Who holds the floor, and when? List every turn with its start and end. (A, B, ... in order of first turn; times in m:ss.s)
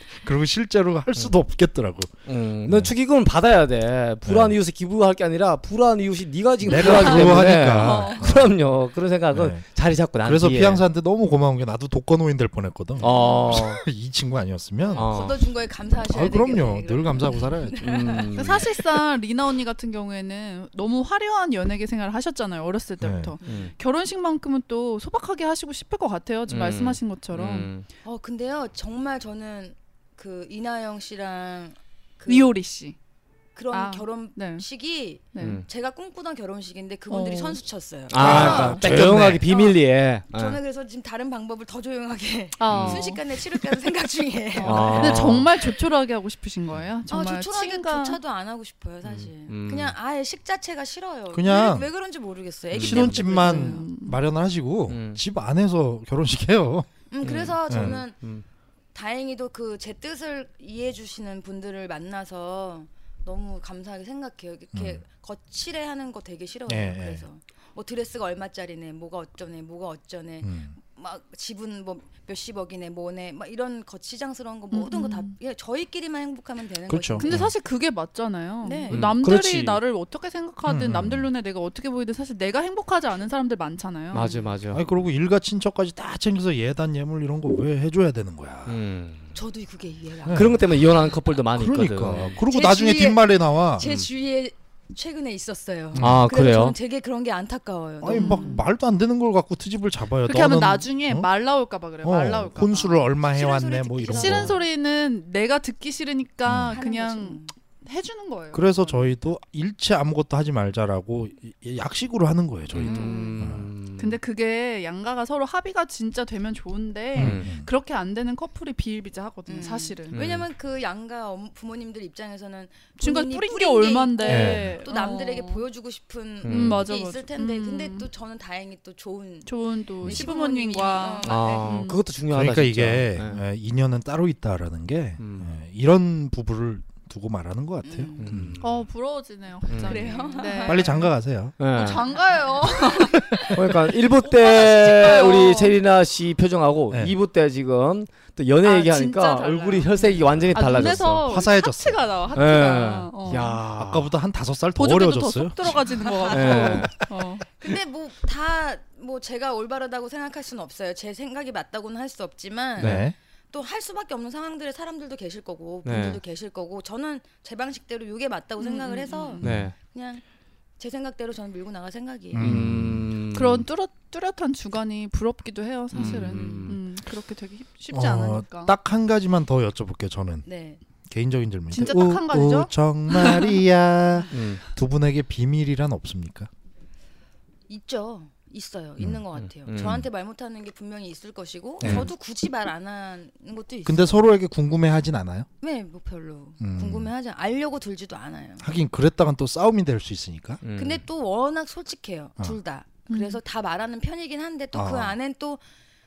0:00.2-0:02.1 A
0:02.3-0:10.8 B
0:04.2-0:04.6 A
0:06.6-0:08.6 A
0:06.7-0:08.2 C
0:07.7-0:08.2 D
0:09.3-0:09.6 A
0:10.2-0:15.1 A
0:13.0-0:13.8 B
0:14.8-0:18.6 C
0:15.0-0:15.4 B
0:16.1-0:17.8 A
0:17.8-0:18.7 B
0:18.4-0:27.7 D
0:23.0-0:23.4 A
0:23.4-0:23.7 B
0:26.5-0:27.9 B
0:28.0-0:32.6 C
0:32.3-0:33.0 D
0:33.6-0:39.8 C
0:33.7-0:34.6 D
0:35.3-0:35.6 D
0:35.4-0:35.6 B
0:37.1-0:37.6 D
0:38.1-0:40.6 B
0:38.2-0:39.5 A
0:40.3-0:45.4 C
0:42.6-0:43.2 D
0:42.7-0:43.1 B
0:44.5-0:48.2 D
0:44.6-0:45.5 B
0:47.1-0:53.9 C
0:49.0-0:49.9 B
0:51.3-0:51.9 A
0:52.7-0:53.2 B
0:52.8-0:56.9 A
0:53.2-0:54.2 D
0:54.9-0:55.2 B
0:57.1-0:58.2 C
0:57.2-0:58.4 B
0:57.7-0:58.0 A
0:58.9-1:17.4 C
1:04.7-1:05.0 A
1:06.7-1:07.2 A
1:10.4-1:10.7 A
1:14.7-1:15.3 D
1:16.9-1:17.5 A
1:17.2-1:24.5 D
1:18.6-1:19.1 C
1:18.9-1:19.8 B
1:20.6-1:21.3 A
1:24.1-1:24.8 B
1:24.7-1:28.8 A
1:28.7-1:29.4 B
1:29.4-1:31.0 C
1:30.3-1:30.7 A
1:30.3-1:32.4 B
1:31.6-1:33.9 A
1:32.4-1:38.6 C
1:33.8-1:34.1 B
1:35.9-1:36.3 A
1:36.0-1:36.8 B
1:38.0-1:41.3 A
1:38.1-1:38.6 D
1:40.3-1:43.0 D
1:42.0-1:44.6 A
1:43.3-1:44.6 C
1:44.1-1:49.1 D
1:46.5-1:46.8 A
1:46.7-1:47.5 C
1:48.5-1:53.7 A
1:52.7-1:54.2 B
1:52.8-1:53.5 C
1:54.0-2:00.2 D
1:57.2-1:57.7 A
1:57.2-1:57.5 B
1:59.5-2:09.5 C
2:00.1-2:00.5 B
2:03.0-2:05.6 D
2:04.2-2:04.8 A
2:06.4-2:06.8 B
2:06.5-2:08.1 D
2:09.5-2:12.0 D
2:10.0-2:11.9 C
2:11.2-2:13.4 B
2:12.3-2:18.6 A
2:15.2-2:15.5 B
2:17.8-2:18.5 C
2:18.2-2:18.8 B
2:18.6-2:21.1 D
2:19.7-2:20.0 B
2:19.8-2:20.9 C
2:20.6-2:21.6 A
2:21.6-2:22.1 B
2:21.7-2:23.5 D
2:22.6-2:23.6 C
2:23.5-2:31.4 B
2:24.2-2:25.6 C
2:24.4-2:25.7 D
2:28.6-2:33.6 D
2:30.8-2:32.1 A
2:32.3-2:34.1 B
2:33.7-2:37.2 A
2:34.8-2:37.4 D
2:36.2-2:36.9 B
2:37.6-2:50.2 C
2:42.8-2:43.2 A
2:42.8-2:43.1 B
2:45.8-2:46.2 B
2:48.6-2:49.6 D
2:49.4-2:49.7 A
2:49.4-2:49.8 B
2:50.8-2:52.6 C
2:52.3-2:53.1 A
2:52.4-2:53.7 B
2:53.3-2:58.7 D
2:55.9-2:56.8 B
2:57.9-3:00.4 A
3:00.4-3:00.8 C
3:01.1-3:06.5 A
3:01.7-3:03.6 D
3:04.3-3:04.6 B
3:07.7-3:14.3 C
3:09.0-3:10.1 A
3:09.4-3:10.0 B
3:11.8-3:12.1 A
3:11.8-3:12.1 B
3:13.8-3:15.5 A
3:15.6-3:18.6 C
3:16.6-3:17.1 A
3:18.6-3:20.6 A
3:20.6-3:21.0 B
3:20.8-3:25.6 C
3:23.1-3:23.4 D
3:24.7-3:25.2 A